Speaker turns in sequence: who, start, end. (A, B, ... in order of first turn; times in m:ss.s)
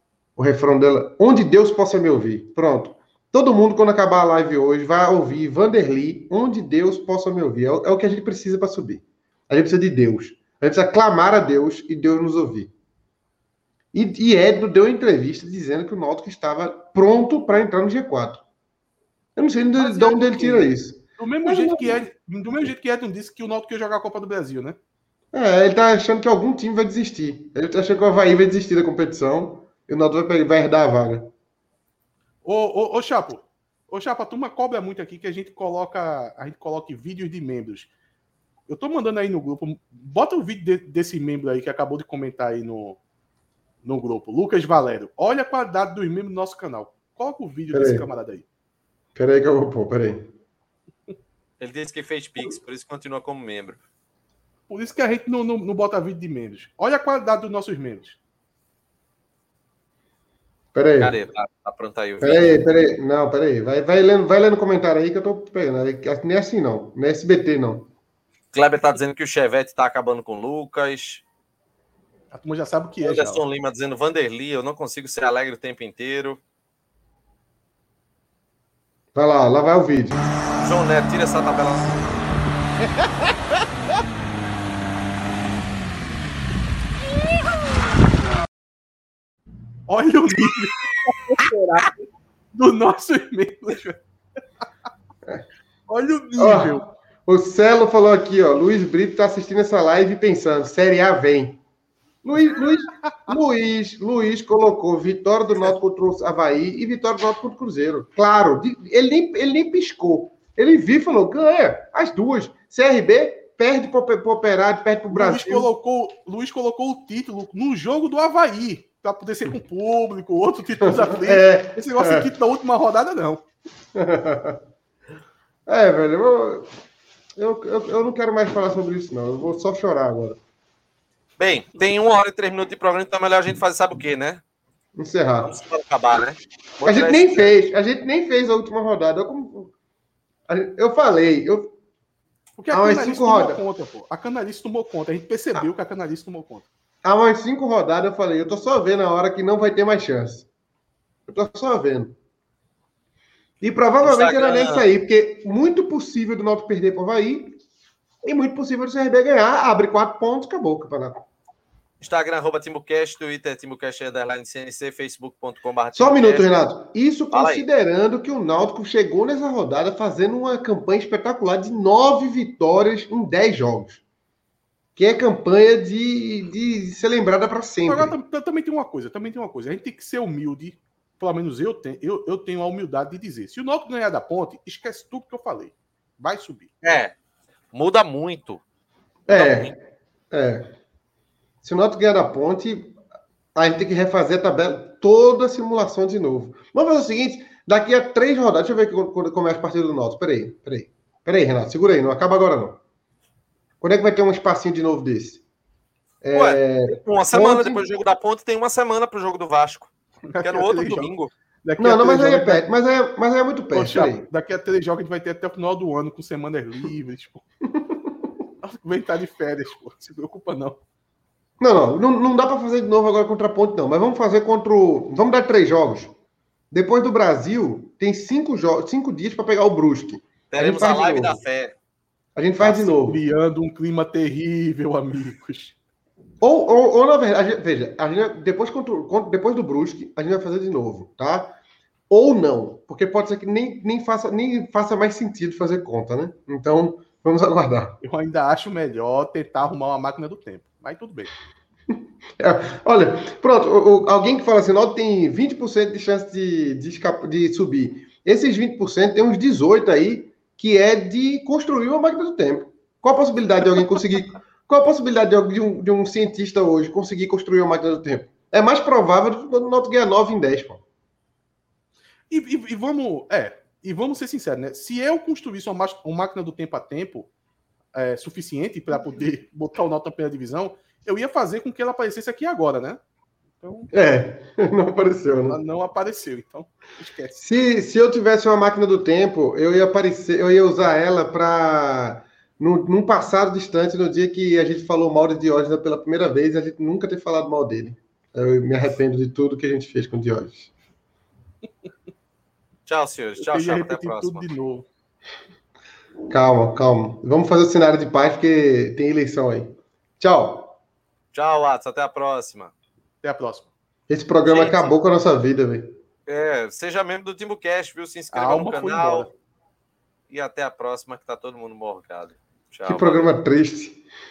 0:00.4-0:12.7 A
0:13.9-0:18.4 A
0:19.4-0:22.0 A
0:19.7-0:24.8 B
0:25.3-0:31.3 A
0:32.4-0:37.9 B
0:38.7-0:43.0 B
0:43.8-0:48.4 B
0:47.7-0:48.1 A
0:49.1-0:50.3 A
0:51.6-0:53.8 C
0:54.7-0:58.2 B
1:00.7-1:01.2 A
1:01.0-1:02.6 C
1:02.2-1:07.9 A
1:08.5-1:11.2 C
1:12.3-1:13.4 B
1:13.0-1:16.4 C
1:19.1-1:20.2 A
1:20.6-1:22.0 C
1:29.9-1:32.0 B
1:32.5-1:34.0 B
1:35.9-1:36.9 B
1:36.4-1:41.6 A
1:42.2-1:55.7 A
1:55.1-2:03.4 B
2:00.8-2:02.3 A
2:03.9-2:04.6 A
2:05.7-2:06.7 A
2:07.4-2:10.4 A
2:11.4-2:14.4 C
2:15.0-2:15.5 A
2:15.4-2:17.5 C
2:16.8-2:19.7 A
2:20.5-2:21.7 A
2:22.6-2:26.7 B
2:22.7-2:23.6 A
2:27.0-2:30.5 A
2:31.3-2:32.1 A
2:33.6-2:37.6 A
2:34.0-2:34.8 C
2:38.2-2:41.2 A
2:42.0-2:46.5 C
2:45.9-2:54.0 A
2:47.3-2:47.6 C
2:55.0-2:58.1 A
2:57.8-3:06.7 B
3:06.8-3:07.1 C
3:07.7-3:08.6 C
3:09.3-3:09.8 A
3:09.3-3:09.7 C
3:10.3-3:10.6 A
3:11.6-3:13.0 A
3:13.5-3:22.8 A
3:23.8-3:25.4 A
3:26.2-3:27.8 A
3:26.3-3:29.9 C
3:30.3-3:31.1 B
3:30.4-3:31.3 C
3:31.6-3:32.6 B
3:31.8-3:34.3 A
3:33.7-3:37.4 B
3:37.7-3:38.1 A
3:38.6-3:40.8 B
3:41.6-3:46.1 A
3:46.7-3:51.4 A
3:50.5-3:51.7 C
3:52.4-3:53.2 A
3:52.6-3:55.8 B
3:56.4-4:01.6 A
4:02.1-4:08.0 A
4:08.0-4:11.3 B
4:12.4-4:30.8 A
4:32.3-4:37.3 B
4:37.9-4:43.0 B
4:43.6-4:43.9 B
4:43.9-4:45.6 A
4:45.3-4:47.4 B
4:47.3-5:00.7 A
5:02.8-5:04.5 C
5:03.4-5:04.9 B
5:06.3-5:10.7 A
5:11.3-5:12.7 C
5:13.2-5:13.7 B
5:14.1-5:16.0 A
5:14.4-5:15.0 C
5:16.3-5:19.3 C
5:18.3-5:19.3 B
5:20.3-5:23.3 C
5:22.8-5:24.0 A